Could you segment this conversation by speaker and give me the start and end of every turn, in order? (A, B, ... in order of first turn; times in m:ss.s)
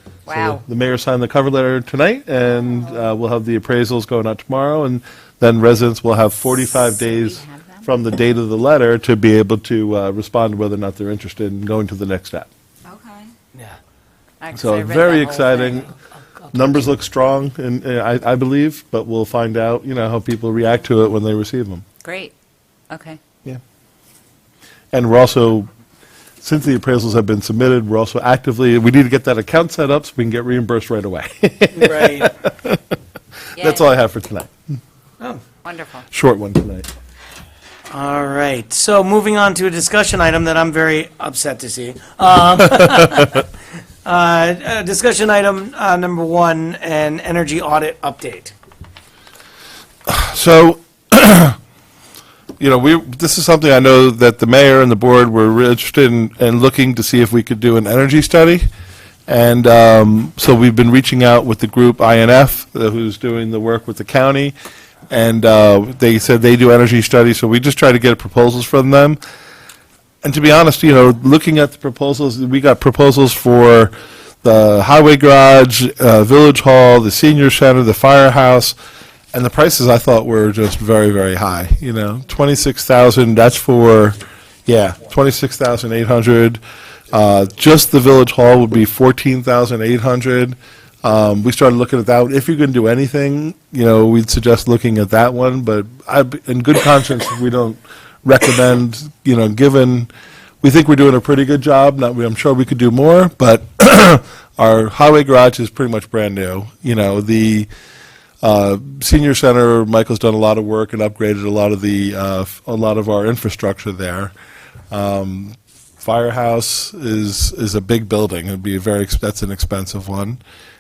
0:00.3-0:00.6 A
0:00.3-0:12.5 B
0:06.8-0:07.9 A
0:12.8-0:13.3 A
0:14.4-0:15.9 A
0:14.5-0:15.9 B
0:16.5-0:21.8 B
0:22.0-0:22.3 A
0:22.9-0:23.2 A
0:24.9-0:25.7 B
0:26.4-0:32.8 B
0:31.7-0:32.3 C
0:33.6-0:33.9 A
0:33.6-0:34.5 B
0:35.6-0:36.1 A
0:36.1-0:36.9 B
0:37.9-0:43.4 C
0:44.0-0:48.5 C
0:50.1-0:51.6 B
0:52.6-0:58.7 B
0:59.3-1:04.5 B
1:05.1-1:09.2 B
1:10.2-1:18.8 B
1:19.3-1:40.1 B
1:40.6-1:47.7 B
1:48.4-1:54.3 B
1:54.9-2:00.4 B